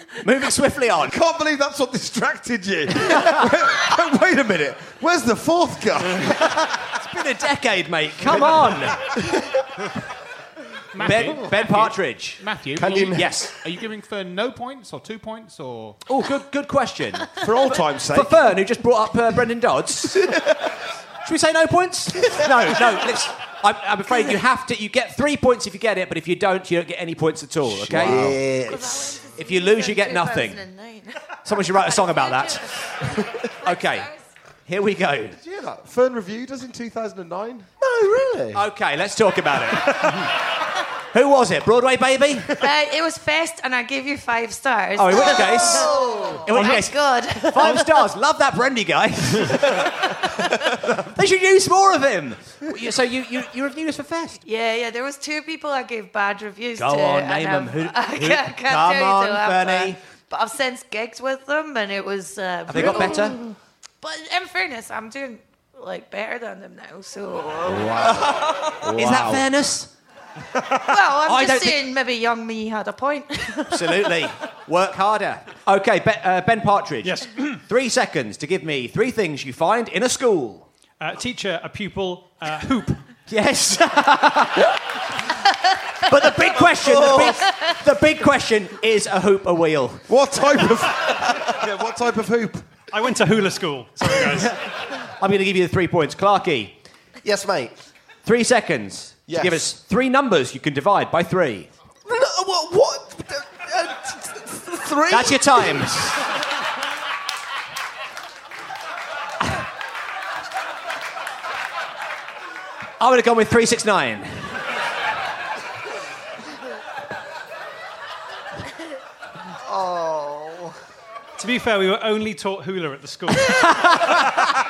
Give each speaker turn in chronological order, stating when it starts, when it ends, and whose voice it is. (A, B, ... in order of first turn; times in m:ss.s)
0:00.2-0:01.1 A
0:01.0-0:06.9 B
0:03.0-0:03.5 A
0:06.8-0:09.1 A
0:08.2-0:09.3 B
0:10.9-0:16.0 C
0:11.0-0:12.4 A
0:12.7-0:13.3 D
0:13.1-0:13.5 A
0:16.0-0:17.3 A
0:17.4-0:18.5 B
0:18.1-0:20.4 A
0:21.2-0:28.4 A
0:27.6-0:28.4 B
0:27.9-0:28.9 D
0:28.6-0:34.2 E
0:29.3-0:30.6 A
0:31.4-0:34.1 A
0:34.6-0:35.4 A
0:35.4-0:37.7 B
0:37.8-0:38.6 D
0:38.5-0:40.3 A
0:41.1-0:42.6 A
0:42.6-0:48.0 E
0:45.0-0:45.9 A
0:45.3-0:46.4 D
0:46.4-0:54.4 A
0:49.8-0:50.5 E
0:54.4-1:08.0 E
0:56.8-1:00.0 A
1:02.7-1:03.4 A
1:07.9-1:09.4 B
1:07.9-1:09.4 D
1:08.8-1:09.9 A
1:10.8-1:14.3 E
1:11.2-1:11.8 A
1:13.7-1:20.7 A
1:17.0-1:17.6 F
1:21.0-1:23.0 F
1:23.3-1:24.7 A
1:26.0-1:30.1 A
1:26.7-1:27.4 D
1:30.1-1:32.7 B
1:32.9-1:34.5 F
1:34.3-1:36.8 A
1:37.2-1:37.7 D
1:38.2-1:41.7 A
1:39.3-1:39.6 D
1:42.0-1:45.9 D
1:45.1-1:46.2 A
1:53.0-1:54.6 A
1:59.6-2:00.7 D
2:01.4-2:04.2 F
2:03.4-2:04.4 A